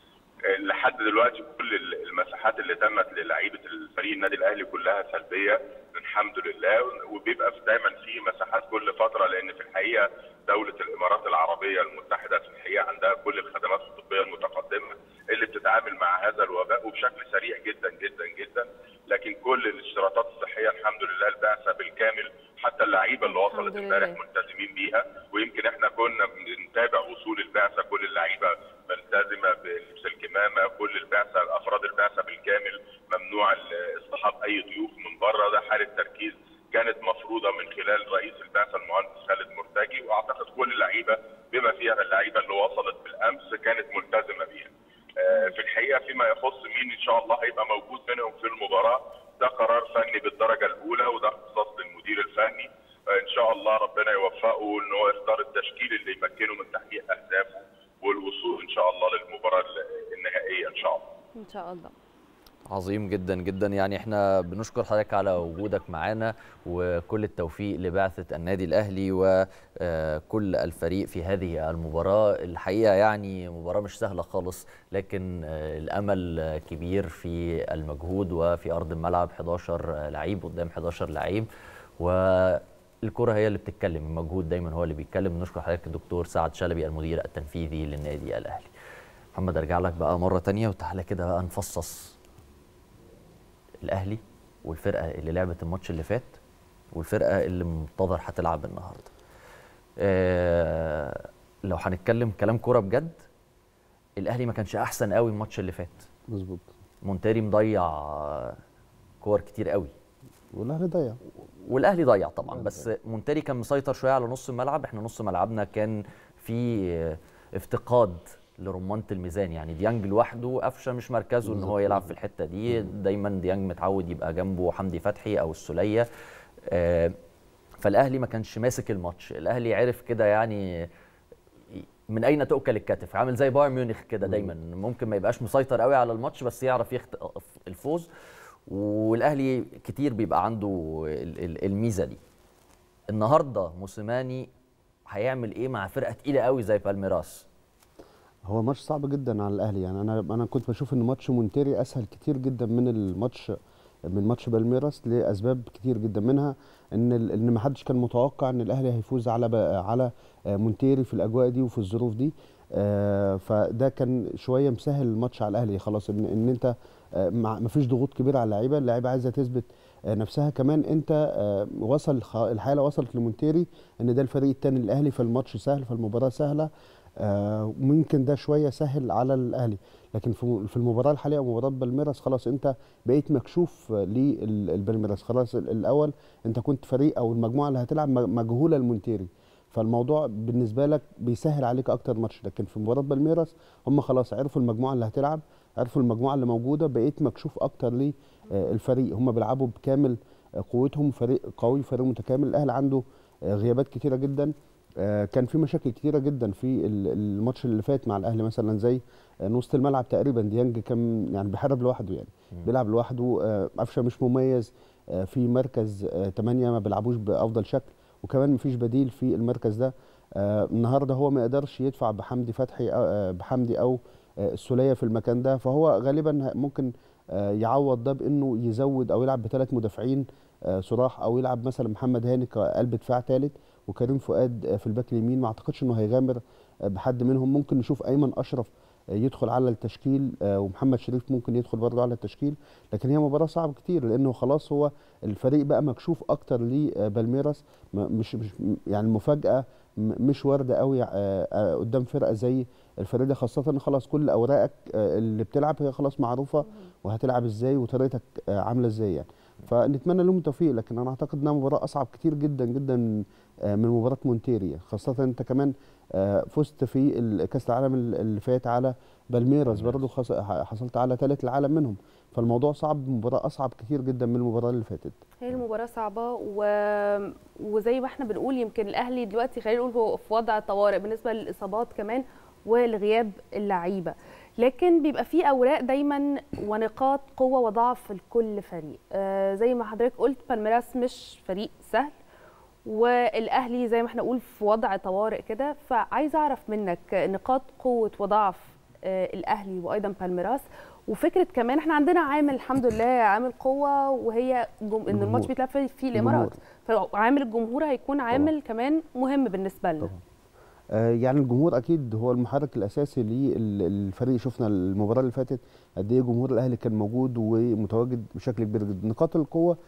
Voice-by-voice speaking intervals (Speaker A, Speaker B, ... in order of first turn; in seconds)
Speaker A: 0.5-61.0
Speaker B: 23.2-24.2, 61.4-61.9, 275.4-292.1, 292.9-310.1
Speaker C: 62.7-81.5, 82.0-88.7, 89.3-92.2, 93.8-96.4, 96.9-99.1, 100.0-103.2, 104.2-106.1, 107.0-108.6, 109.2-109.9, 111.6-126.0, 126.6-127.1, 127.8-130.9, 131.7-138.1, 138.7-142.2, 143.1-144.5, 145.1-147.4, 269.7-270.0
Speaker D: 106.3-106.7, 110.5-111.2, 112.5-112.9, 121.4-122.1, 148.4-153.6, 154.1-176.7, 177.2-275.2, 305.1-305.5, 306.1-306.5, 310.9-319.8